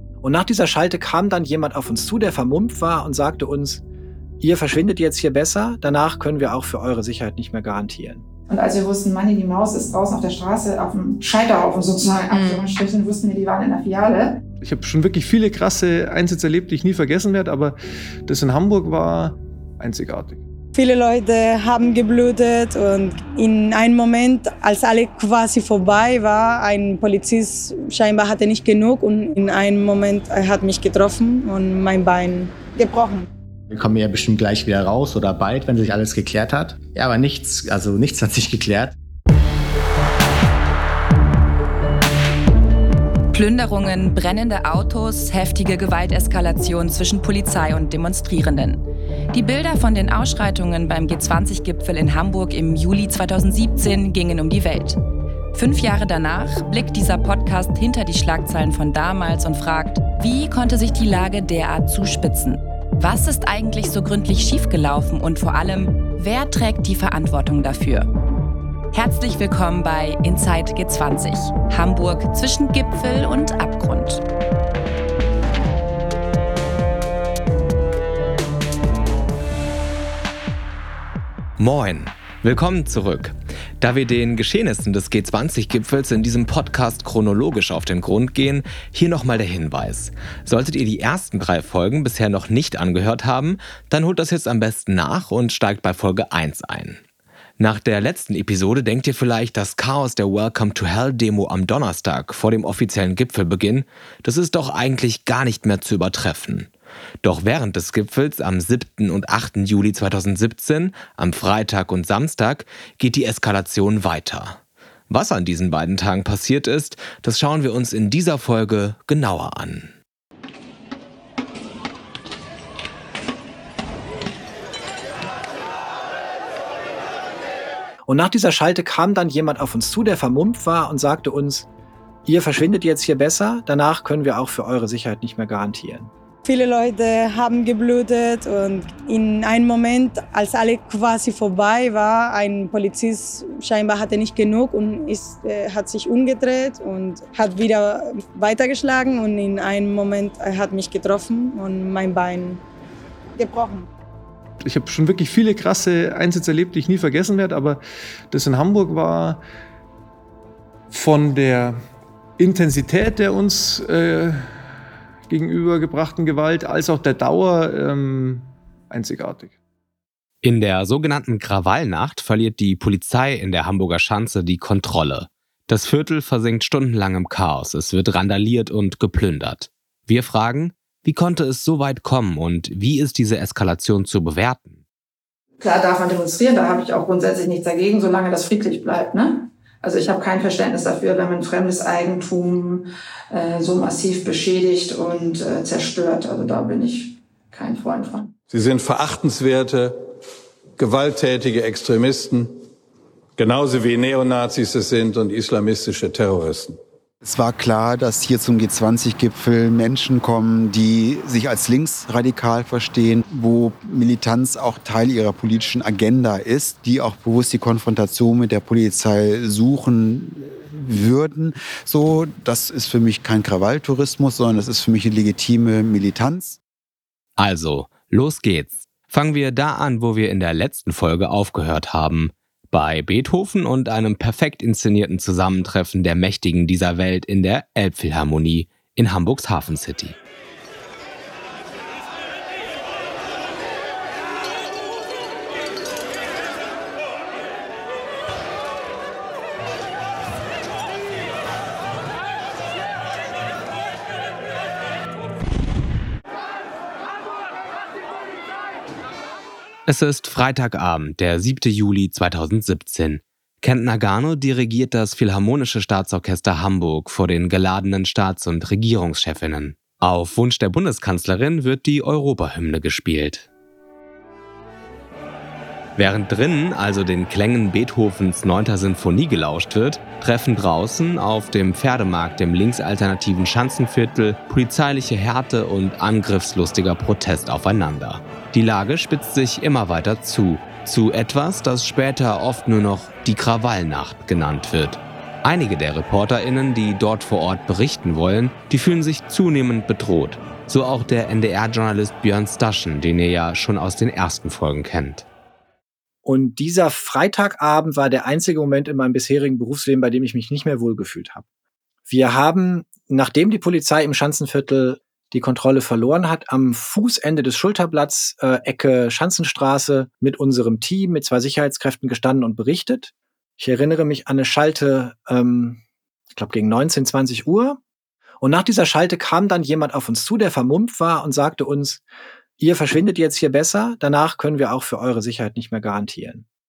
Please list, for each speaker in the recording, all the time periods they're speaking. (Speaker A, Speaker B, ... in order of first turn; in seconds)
Speaker A: 0.2-3.8, 4.4-8.2, 128.1-131.7, 132.3-136.1, 306.2-311.4, 312.1-325.8, 326.3-327.8, 328.4-332.0, 332.6-336.5
Speaker B: 8.5-14.4, 185.6-198.3
Speaker C: 12.3-12.7, 20.7-33.3, 136.5-152.6, 153.4-153.9
Speaker D: 14.6-17.8, 18.3-20.4, 154.6-157.8, 158.3-159.4, 160.9-161.8, 162.4-164.6, 165.3-169.6
Speaker E: 33.7-39.0
Speaker F: 43.3-48.8, 49.3-55.0, 55.5-68.1, 68.9-74.2
Speaker G: 81.6-97.0, 97.6-106.7, 107.2-114.6, 115.1-119.9, 170.4-184.8, 227.4-240.2, 259.9-273.5, 276.0-305.2
Speaker H: 198.5-200.0, 200.8-202.5, 203.4-206.8
Speaker I: 207.2-226.6